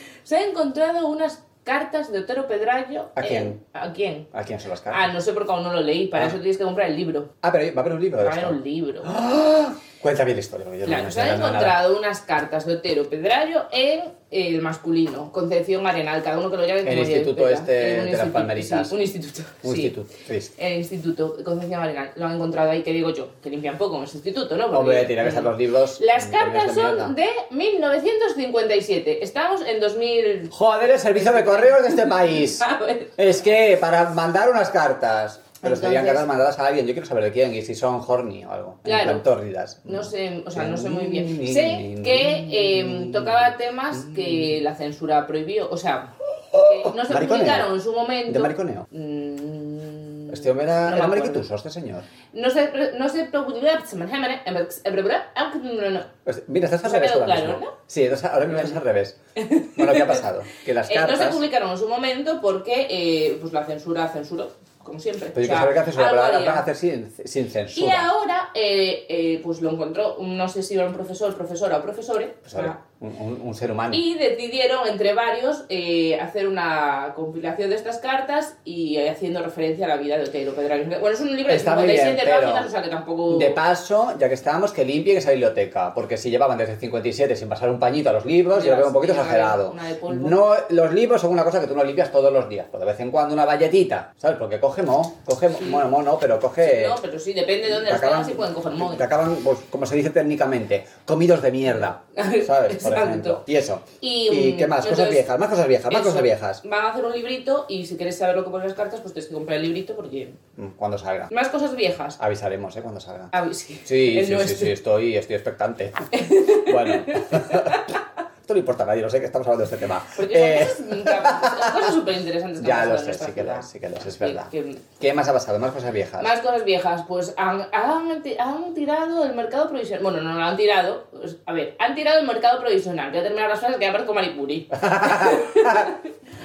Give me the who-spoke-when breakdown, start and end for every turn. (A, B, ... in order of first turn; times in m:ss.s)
0:00.2-0:04.3 A
0:03.2-0:03.6 B
0:04.3-0:05.1 B
0:04.9-0:07.3 A
0:07.4-0:11.8 B
0:08.2-0:09.1 A
0:10.8-0:19.9 A
0:16.8-0:18.9 B
0:19.6-0:20.5 B
0:20.6-0:30.5 A
0:24.7-0:27.1 B
0:30.5-0:32.6 B
0:31.1-0:33.2 A
0:33.2-0:44.6 B
0:35.6-0:36.2 A
0:38.8-0:39.3 A
0:39.8-0:51.4 A
0:46.5-0:47.7 B
0:48.2-0:48.8 B
0:50.3-0:52.1 B
0:52.3-0:56.1 A
0:56.2-0:59.2 B
0:56.8-0:57.7 A
0:59.4-1:00.2 A
0:59.7-1:01.4 B
1:00.8-1:06.6 A
1:05.3-1:08.1 B
1:07.7-1:12.8 A
1:12.4-1:14.0 B
1:13.9-1:23.6 A
1:21.5-1:22.7 B
1:23.3-1:37.0 B
1:28.5-1:30.4 A
1:35.6-1:35.8 A
1:36.6-1:39.1 A
1:37.7-1:46.6 B
1:42.1-1:43.4 A
1:44.0-1:45.2 A
1:45.9-1:50.4 A
1:50.6-1:51.3 B
1:51.3-1:52.2 A
1:52.2-1:53.3 B
1:53.3-1:54.7 A
1:53.8-1:57.9 B
1:56.1-1:57.9 A
1:58.4-2:01.9 B
2:00.1-2:04.8 A
2:02.6-2:06.3 B
2:06.2-2:16.0 A
2:14.8-2:15.9 B